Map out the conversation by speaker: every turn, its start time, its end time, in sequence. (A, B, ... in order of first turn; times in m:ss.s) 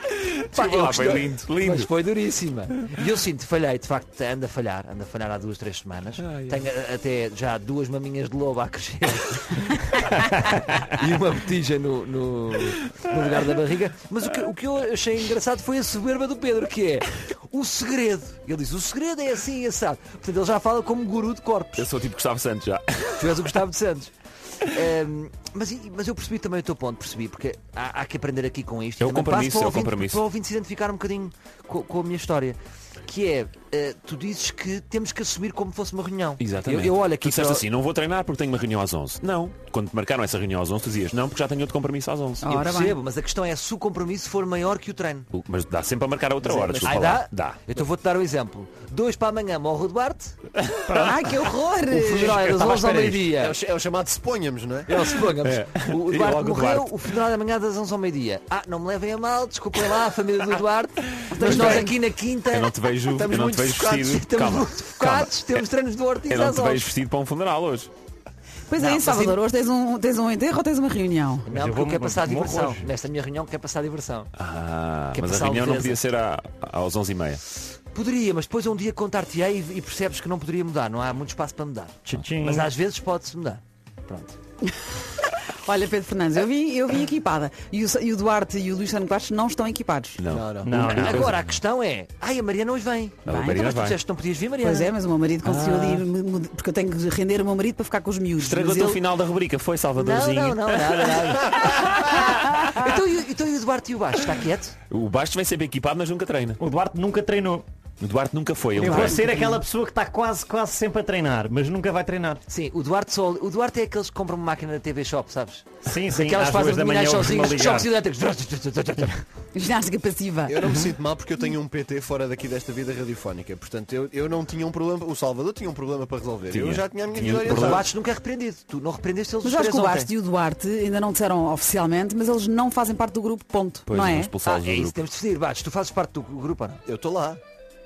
0:00.1-0:01.9 A
0:00.5-0:21.9 B
0:06.2-0:06.6 A
0:21.8-0:23.3 A
0:23.2-0:37.7 B
0:29.0-0:30.2 A
0:36.4-0:42.5 A
0:42.4-0:43.0 C
0:42.4-0:45.3 B
0:45.3-0:47.6 A
0:46.4-0:47.0 D
0:46.8-0:50.4 B
0:50.8-0:52.6 C
0:51.9-0:53.6 B
0:52.6-0:55.1 D
0:54.9-1:02.7 B
0:55.4-0:56.9 A
1:01.3-1:01.9 C
1:01.4-1:01.8 A
1:02.5-1:05.6 A
1:03.1-1:04.2 D
1:03.9-1:06.9 B
1:06.2-1:07.9 A
1:08.7-1:11.5 C
1:08.8-1:09.4 B
1:11.4-1:14.3 B
1:11.5-1:12.9 E
1:14.4-1:17.4 A
1:15.1-1:16.0 B
1:17.9-1:24.4 B
1:22.0-1:22.7 E
1:25.4-1:30.2 C
1:30.2-1:31.4 A
1:30.3-1:30.8 D
1:30.6-1:31.4 E
1:30.9-1:34.9 B
1:33.2-1:34.0 A
1:33.3-1:33.7 C
1:34.6-1:39.0 C
1:35.4-1:36.1 A
1:38.4-1:41.3 A
1:40.0-1:44.7 B
1:44.9-1:46.6 A
1:46.6-1:47.6 E
1:48.0-1:49.4 A
1:48.8-1:52.4 E
1:48.8-1:49.2 B
1:52.5-1:59.2 B
1:55.8-1:57.9 E
1:59.5-2:00.6 C
2:00.5-2:07.9 D
2:06.5-2:07.8 A
2:07.4-2:10.1 B
2:09.4-2:14.3 C
2:13.9-2:15.0 A
2:14.4-2:16.8 B
2:16.8-2:17.4 D